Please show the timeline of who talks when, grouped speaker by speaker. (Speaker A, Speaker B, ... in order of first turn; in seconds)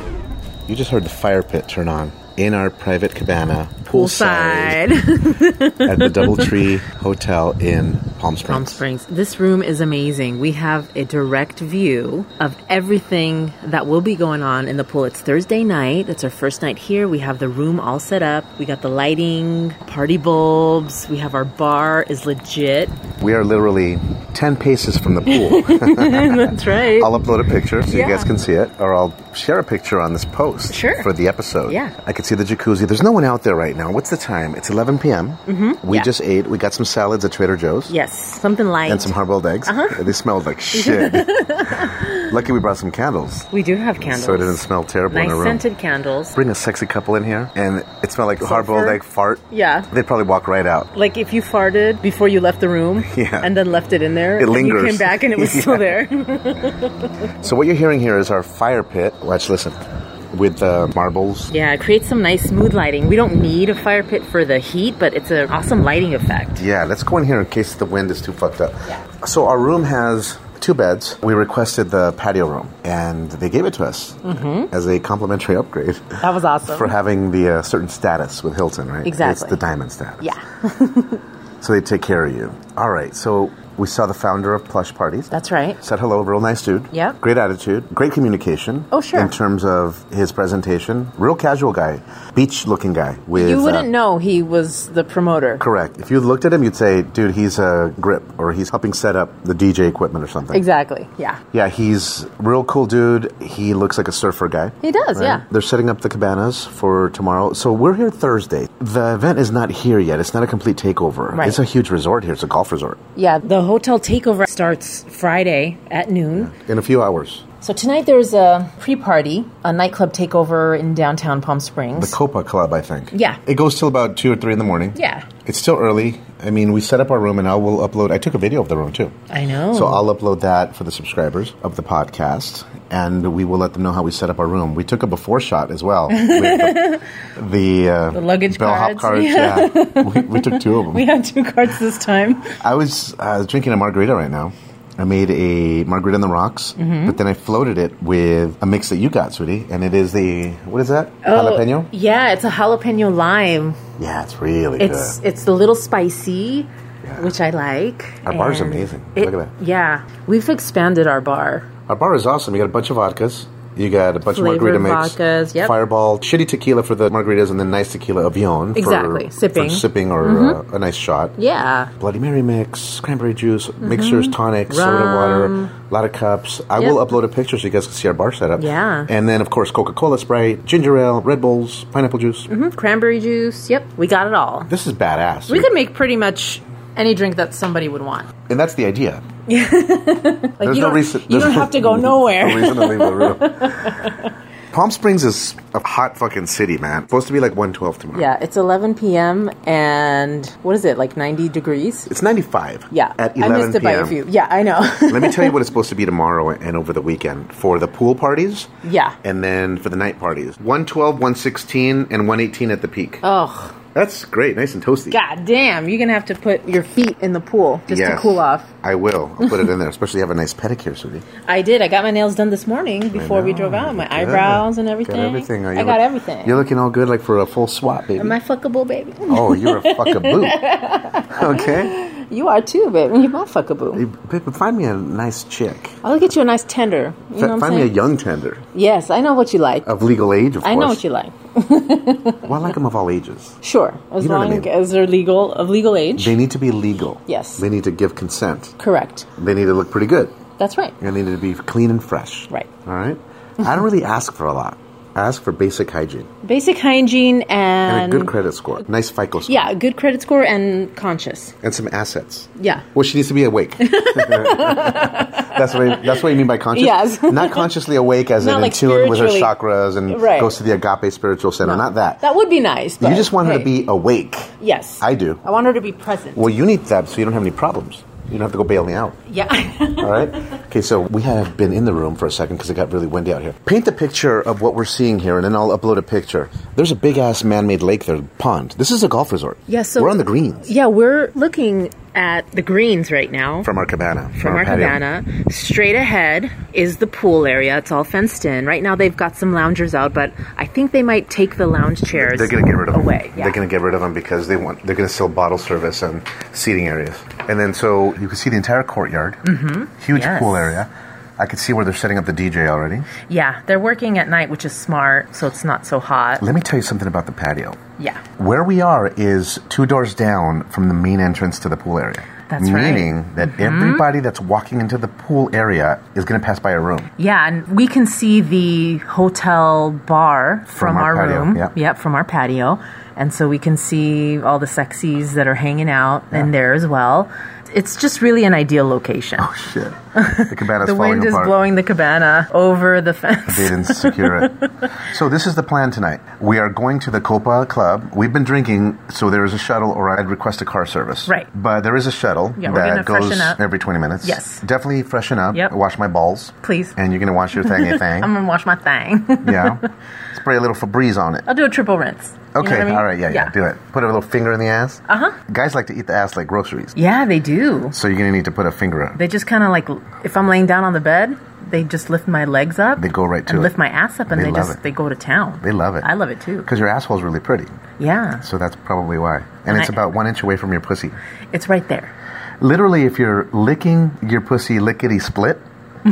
Speaker A: 0.7-4.9, 5.8-8.8, 23.2-37.9, 38.9-45.6, 46.4-50.9, 53.0-53.5, 54.4-56.0, 57.4-59.8, 60.3-61.5, 66.6-80.3, 81.6-93.9, 95.6-100.6, 101.5-113.0, 116.3-117.5, 122.0-129.2, 129.7-141.1, 142.6-151.9, 154.0-155.2, 157.0-157.3, 158.2-159.5, 161.9-171.3, 172.0-182.5, 184.7-185.7, 188.5-189.2, 190.6-194.1, 194.7-198.3, 202.1-204.2, 205.0-208.7, 209.2-213.2, 213.9-215.2, 217.9-221.2, 223.1-228.4, 229.3-230.6, 231.3-232.0, 233.9-236.0, 237.3-238.6, 239.8-241.0, 242.4-243.6, 244.2-244.7, 246.2-248.8, 249.3-250.4, 251.0-256.3, 257.9-259.7, 261.6-272.2, 273.0-275.4, 276.4-279.2, 280.0-290.7, 293.6-295.0, 302.1-309.4, 310.0-313.1, 316.4-317.8, 318.4-327.1, 330.8-331.7, 339.4-341.6, 343.5-358.3, 359.4-361.5, 362.5-367.0, 367.9-369.2, 373.0-373.8, 374.3-374.8, 375.6-376.1, 376.6-377.8, 378.4-381.2, 382.6-385.6
Speaker B: 3.9-6.6, 8.5-23.0, 25.3-27.1, 27.9-28.3, 30.7-31.1, 31.7-31.9, 35.5-36.1, 37.9-40.0, 40.7-42.3, 43.5-46.4, 48.4-49.9, 50.9-57.1, 61.5-66.6, 74.2-74.7, 76.2-76.9, 79.0-79.6, 80.2-81.2, 85.3-85.8, 86.9-87.2, 88.9-89.3, 93.3-95.6, 100.5-101.4, 104.8-105.5, 111.3-111.6, 113.2-116.5, 117.6-122.2, 123.1-123.4, 125.0-125.3, 129.3-130.0, 136.1-137.0, 138.1-142.6, 146.8-147.2, 151.2-153.8, 154.8-161.7, 164.3-165.8, 168.8-170.6, 171.4-171.9, 173.8-175.7, 178.6-179.1, 182.5-184.7, 185.5-188.3, 189.5-194.3, 198.1-202.1, 202.9-205.6, 208.8-209.2, 213.2-213.8, 215.1-218.7, 219.4-219.7, 221.5-226.6, 228.2-234.0, 236.0-237.9, 238.7-239.9, 240.6-242.5, 243.6-246.3, 247.3-247.6, 248.8-249.3, 250.6-251.0, 256.4-258.3, 259.5-261.6, 262.6-262.9, 263.8-266.1, 266.7-267.7, 268.4-269.5, 270.1-270.5, 271.6-273.7, 274.6-276.5, 279.3-280.3, 289.7-293.7, 294.4-303.6, 309.4-310.8, 313.3-316.4, 322.5-324.1, 327.2-339.5, 340.1-344.9, 352.6-353.6, 354.2-354.6, 356.6-357.0, 357.6-359.9, 361.5-363.5, 365.1-365.4, 367.0-367.9, 369.1-376.7, 378.0-378.4, 379.7-380.0, 381.5-382.1